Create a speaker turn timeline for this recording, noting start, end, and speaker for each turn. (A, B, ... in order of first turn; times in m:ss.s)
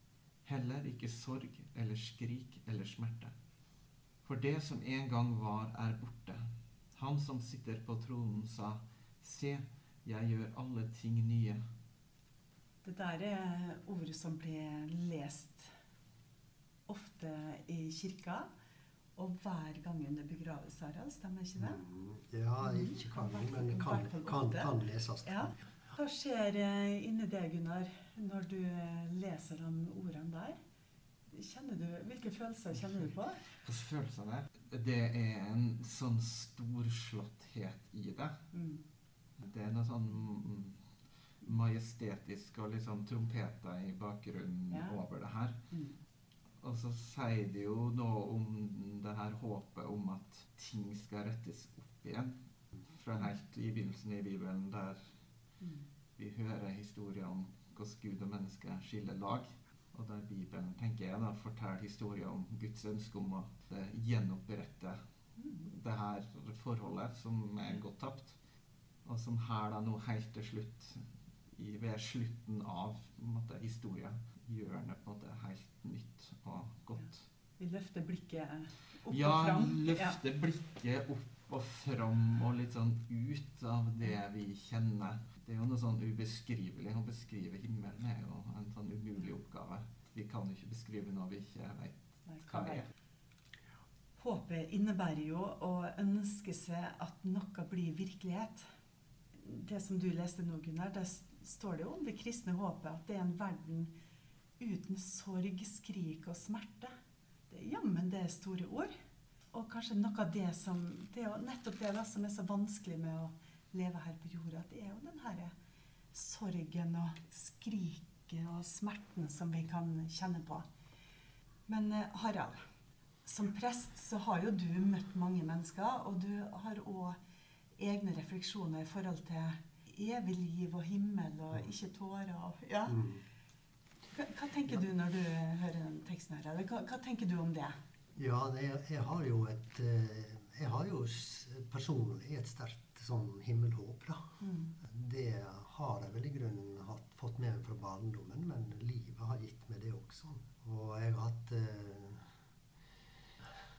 0:00.4-0:03.3 A
0:04.2-0:11.6 A
0:12.8-0:15.7 B
0:16.9-0:18.5 B
0:19.2-0:21.8 B
0:21.6-0:25.5 C
0:22.6-0:24.7 B
0:25.2-0:30.6 B
0:31.3-0:33.4 B
0:33.6-0:38.4 A
0:38.5-0:38.8 B
0:39.4-0:40.8 A
0:41.4-0:45.6 A
0:44.7-0:45.0 B
0:46.6-0:52.3 A
0:52.9-0:55.1 A
0:55.6-0:55.9 B
0:56.2-1:05.0 A
1:05.6-1:08.4 A
1:09.0-1:17.2 A
1:17.6-1:20.2 B
1:19.1-1:32.8 A
1:32.2-1:32.8 B
1:34.2-1:38.7 B
1:39.4-1:43.9 B
1:44.6-1:46.9 B
1:47.5-1:48.9 B
1:49.5-1:55.5 B
1:56.1-2:00.6 B
2:01.7-2:02.6 B
2:03.2-2:07.2 B
2:07.8-2:13.0 B
2:12.9-2:13.2 C
2:14.1-2:17.8 B
2:18.2-2:32.3 C
2:24.4-2:24.7 B